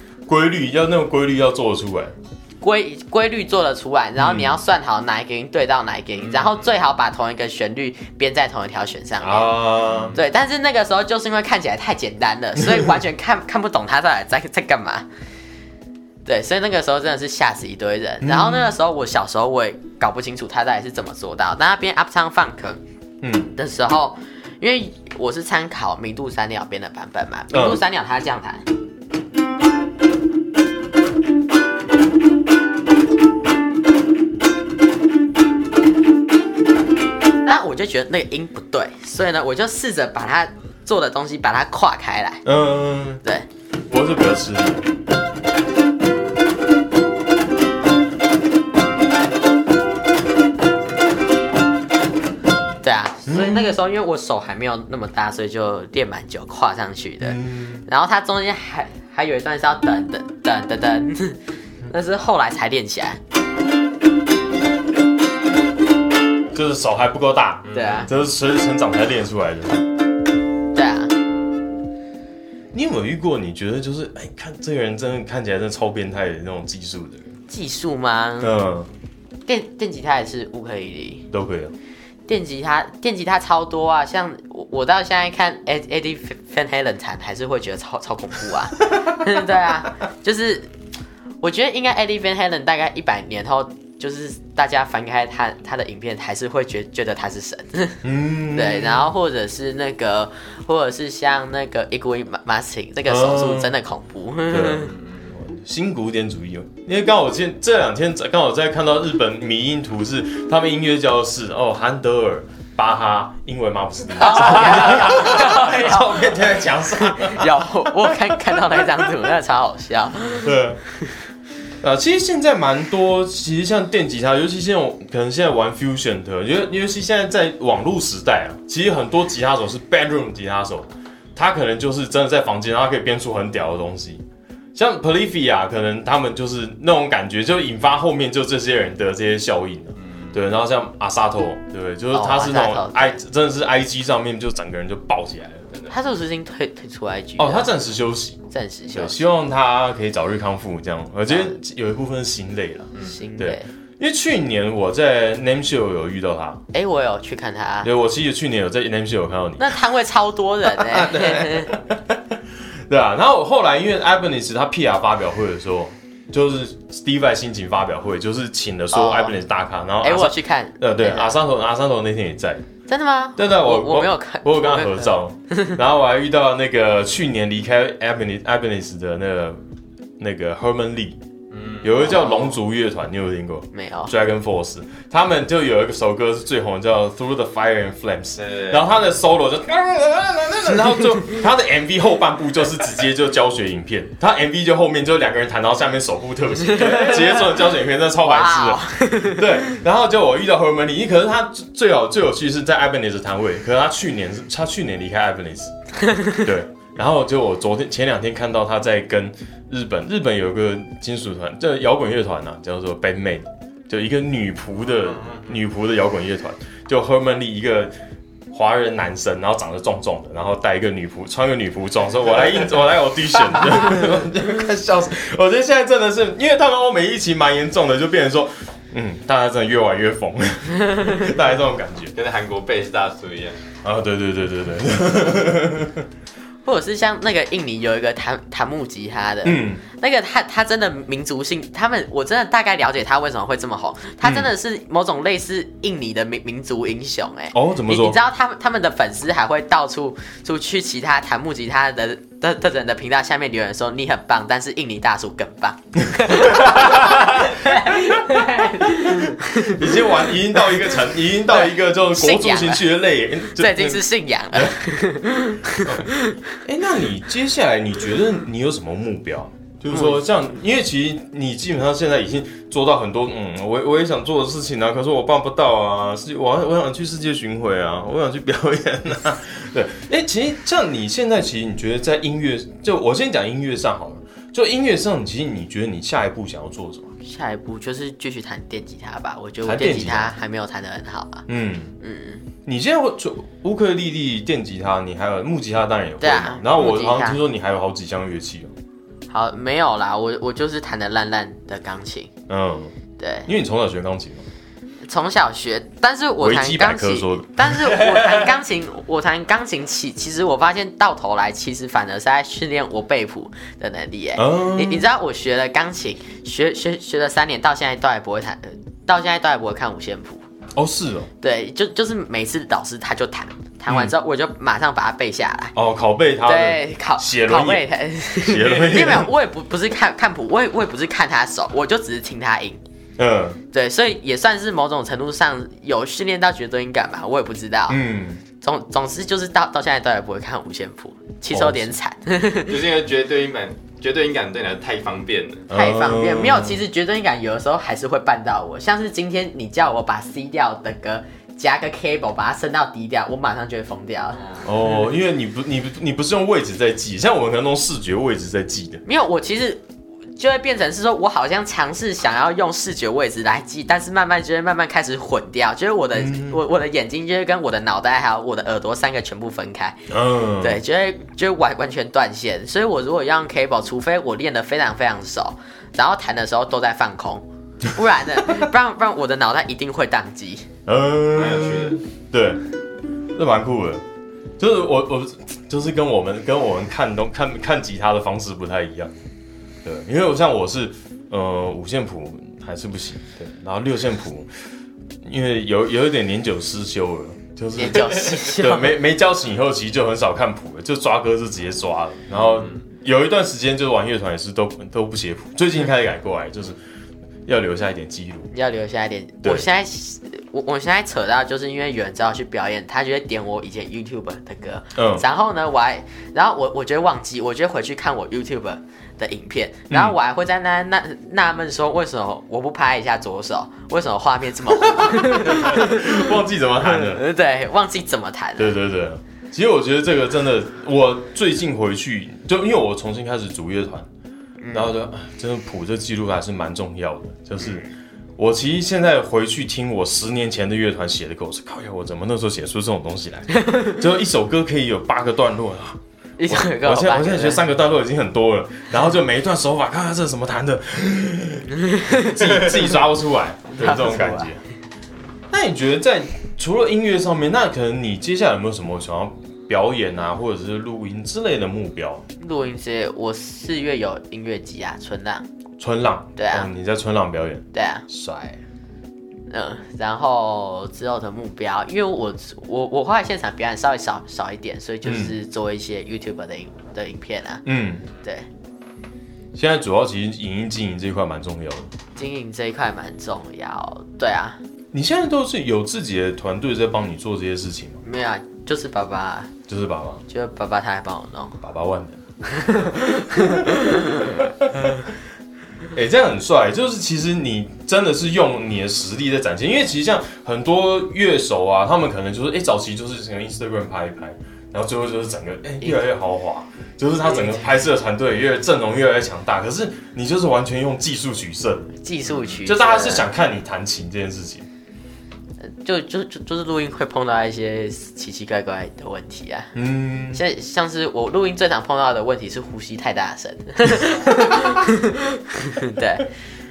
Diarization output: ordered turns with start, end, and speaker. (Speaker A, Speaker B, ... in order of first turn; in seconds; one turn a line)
Speaker A: 0.3-2.1
Speaker B: 2.6-15.1
Speaker A: 4.2-4.6
Speaker C: 6.2-6.6
Speaker A: 9.2-10.2
Speaker C: 9.9-10.2
Speaker B: 16.2-22.8
Speaker A: 18.2-18.7
Speaker A: 23.2-23.5
Speaker B: 23.5-28.6
Speaker A: 27.5-27.8
Speaker B: 37.4-42.4
Speaker A: 42.4-43.2
Speaker A: 43.9-44.9
Speaker B: 52.8-63.2
Speaker A: 53.2-53.8
Speaker A: 57.2-57.8
Speaker A: 66.5-69.8
Speaker C: 67.7-68.1
Speaker B: 67.7-68.1
Speaker B: 70.7-71.1
Speaker A: 72.7-77.3
Speaker B: 77.5-78.5
Speaker A: 78.4-78.9
Speaker B: 79.5-81.3
Speaker A: 81.3-81.7
Speaker B: 82.3-90.7
Speaker A: 88.9-89.3
Speaker B: 91.4-104.9
Speaker A: 98.0-99.1
Speaker A: 103.1-103.8
Speaker A: 104.5-119.1
Speaker B: 114.2-121.2
Speaker A: 120.4-120.8
Speaker A: 121.8-134.2
Speaker A: 134.7-145.7
Speaker C: 140.0-140.4
Speaker B: 142.1-143.2
Speaker B: 145.9-147.7
Speaker A: 147.4-148.4
Speaker B: 148.5-149.2
Speaker A: 148.9-156.6
Speaker B: 153.0-153.7
Speaker B: 156.7-157.9
Speaker A: 157.8-159.8
Speaker B: 159.6-161.8
Speaker A: 160.7-172.6
Speaker B: 168.9-169.3
Speaker B: 170.0-171.4
Speaker B: 172.9-175.8
Speaker A: 173.4-179.6
Speaker A: 180.2-181.2
Speaker C: 181.5-182.5
Speaker A: 181.8-205.7
Speaker B: 183.7-184.1
Speaker C: 188.4-188.8
Speaker B: 196.6-197.6
Speaker B: 198.2-199.8
Speaker B: 206.0-206.5
Speaker A: 206.3-217.9
Speaker C: 215.2-215.4
Speaker A: 218.5-232.1
Speaker C: 232.1-233.6
Speaker A: 233.8-236.1
Speaker B: 236.6-260.8
Speaker A: 239.4-239.8
Speaker A: 244.2-244.5
Speaker A: 247.5-248.2
Speaker A: 256.1-264.8
Speaker B: 261.5-262.9
Speaker B: 263.5-266.6
Speaker A: 265.8-266.1
Speaker A: 266.6-287.1
Speaker B: 269.9-270.2
Speaker B: 287.2-291.4
Speaker A: 289.6-290.4
Speaker A: 291.5-291.9
Speaker B: 292.0-292.4
Speaker A: 292.6-298.7
Speaker B: 296.2-297.4
Speaker B: 299.3-302.3
Speaker A: 302.5-302.9
Speaker B: 303.2-303.5
Speaker A: 303.5-304.4
Speaker B: 305.0-320.4
Speaker A: 306.4-308.4
Speaker A: 314.4-315.1
Speaker A: 320.7-321.3
Speaker B: 321.4-325.7
Speaker A: 323.9-324.1
Speaker A: 325.7-327.9
Speaker B: 326.4-332.8
Speaker A: 328.4-329.3
Speaker A: 333.2-333.6
Speaker B: 333.7-338.0
Speaker A: 337.9-338.4
Speaker B: 338.6-342.8
Speaker A: 341.5-341.9
Speaker C: 342.6-345.7
Speaker A: 345.7-346.8
Speaker B: 345.7-354.5
Speaker A: 354.6-359.0
Speaker B: 359.0-359.8
Speaker B: 360.4-380.7
Speaker A: 366.1-366.6
Speaker A: 370.1-370.8
Speaker A: 380.9-382.6
Speaker C: 381.3-382.0
Speaker A: 383.3-384.0
Speaker A: 384.6-389.1
Speaker A: 389.8-394.5
Speaker A: 395.2-406.8
Speaker B: 397.7-399.0
Speaker C: 402.4-402.8
Speaker A: 407.4-408.5
Speaker B: 408.5-428.8
Speaker A: 414.9-415.2
Speaker A: 419.9-420.2
Speaker A: 424.8-427.2
Speaker A: 428.6-434.1
Speaker B: 434.6-434.9
Speaker A: 434.7-454.6
Speaker B: 443.5-444.0
Speaker B: 446.4-447.6
Speaker B: 451.8-452.7
Speaker B: 453.7-454.5
Speaker A: 455.5-462.2
Speaker B: 462.4-465.4
Speaker A: 465.8-468.6
Speaker B: 466.4-466.7
Speaker B: 467.7-468.1
Speaker B: 469.5-477.6
Speaker A: 475.0-475.3
Speaker A: 477.6-478.1
Speaker B: 478.2-478.5
Speaker A: 479.5-481.9
Speaker B: 482.1-484.6
Speaker A: 484.9-488.0
Speaker B: 488.0-489.5
Speaker A: 489.7-490.2
Speaker B: 490.3-491.6
Speaker A: 491.6-492.2
Speaker B: 492.4-494.4
Speaker A: 492.9-495.1
Speaker A: 495.9-511.9
Speaker B: 507.2-507.6
Speaker B: 512.0-513.3
Speaker C: 512.3-512.6
Speaker A: 512.6-514.6
Speaker B: 515.6-519.7
Speaker A: 519.7-520.4
Speaker B: 520.3-526.3